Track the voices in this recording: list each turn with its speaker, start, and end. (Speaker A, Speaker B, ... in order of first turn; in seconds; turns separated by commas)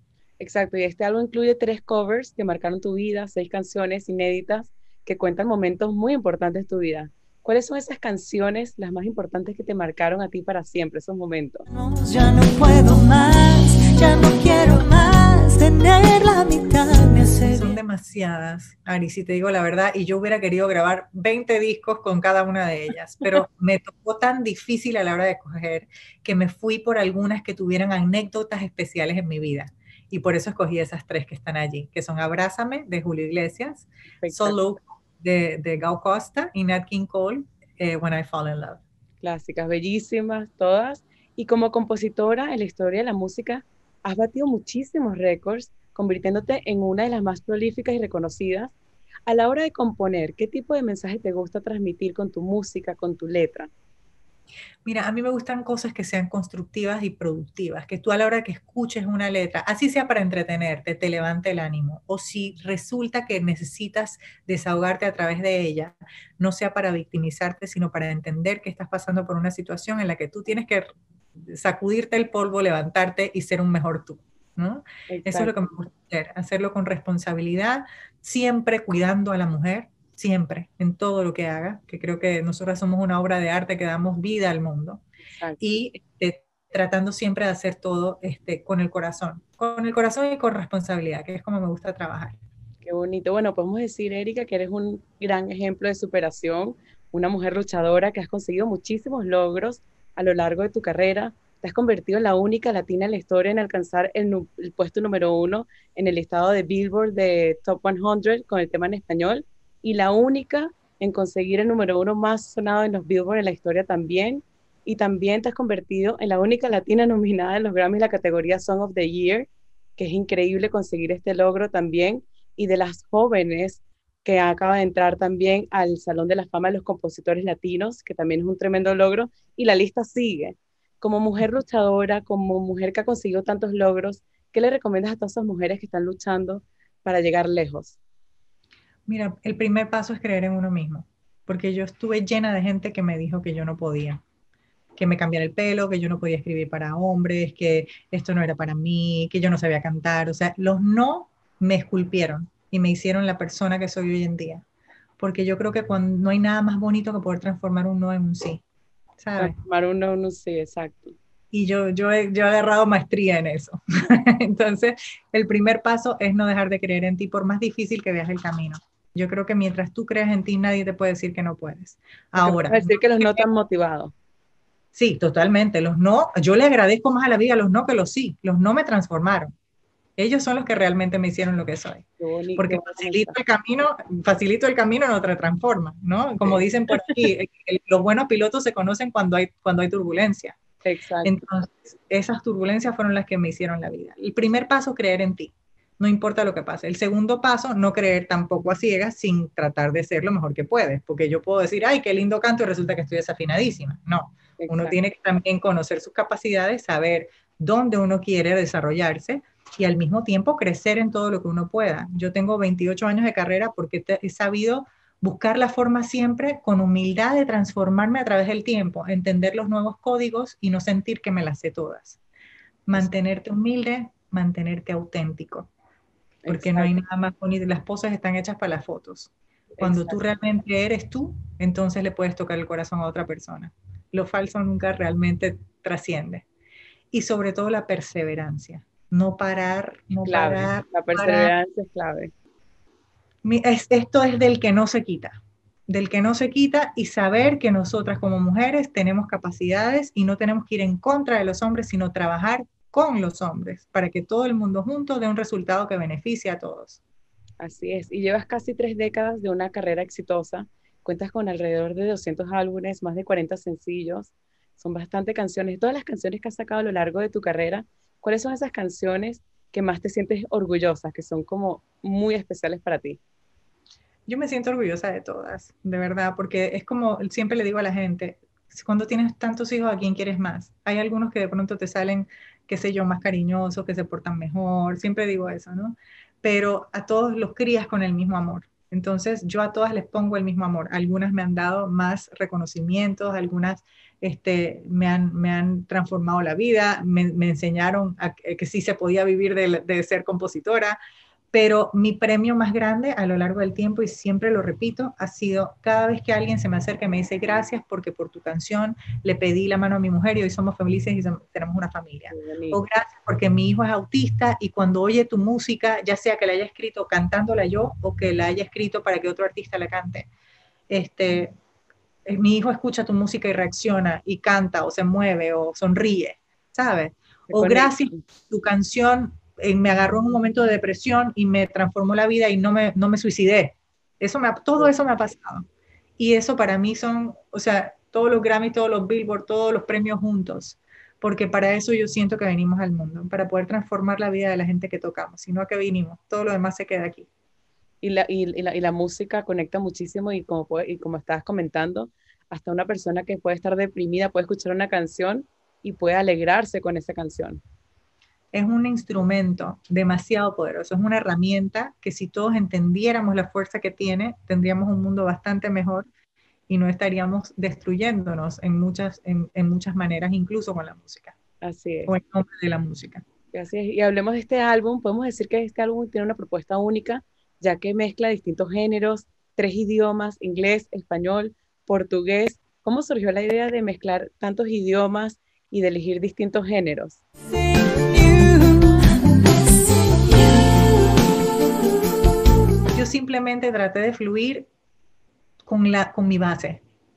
Speaker A: 0.4-11.7, Speaker B: 11.7-17.8, Speaker C: 17.4-38.8, Speaker A: 34.2-34.6, Speaker A: 39.2-48.7, Speaker A: 49.3-53.7, Speaker C: 54.8-85.0, Speaker A: 75.1-75.6, Speaker A: 85.3-85.7, Speaker C: 85.6-92.4, Speaker A: 92.8-138.0, Speaker C: 139.1-144.2, Speaker C: 145.0-154.6, Speaker C: 155.2-158.6, Speaker C: 159.2-159.6, Speaker A: 159.4-161.2, Speaker C: 161.5-173.4, Speaker A: 172.4-174.1, Speaker C: 174.9-179.5, Speaker C: 180.2-182.0, Speaker A: 182.2-183.4, Speaker C: 182.6-190.6, Speaker A: 186.4-187.2, Speaker A: 190.8-191.4, Speaker C: 191.2-222.2, Speaker A: 204.6-205.0, Speaker C: 222.9-225.7, Speaker A: 226.4-226.9, Speaker C: 226.5-229.3, Speaker A: 229.8-230.2, Speaker C: 229.8-236.4, Speaker C: 237.1-241.5, Speaker A: 240.2-242.3, Speaker C: 243.4-257.0, Speaker A: 257.6-273.2, Speaker C: 274.3-301.0, Speaker C: 301.5-320.3, Speaker A: 312.3-312.8, Speaker C: 320.9-321.5, Speaker C: 322.2-335.6, Speaker A: 327.5-328.2, Speaker C: 336.2-347.3, Speaker A: 348.0-357.6, Speaker C: 358.5-366.1, Speaker C: 366.7-371.3, Speaker A: 371.6-372.1, Speaker C: 372.1-373.2, Speaker A: 373.5-387.2, Speaker B: 387.7-390.9, Speaker C: 392.9-394.7, Speaker C: 395.6-396.8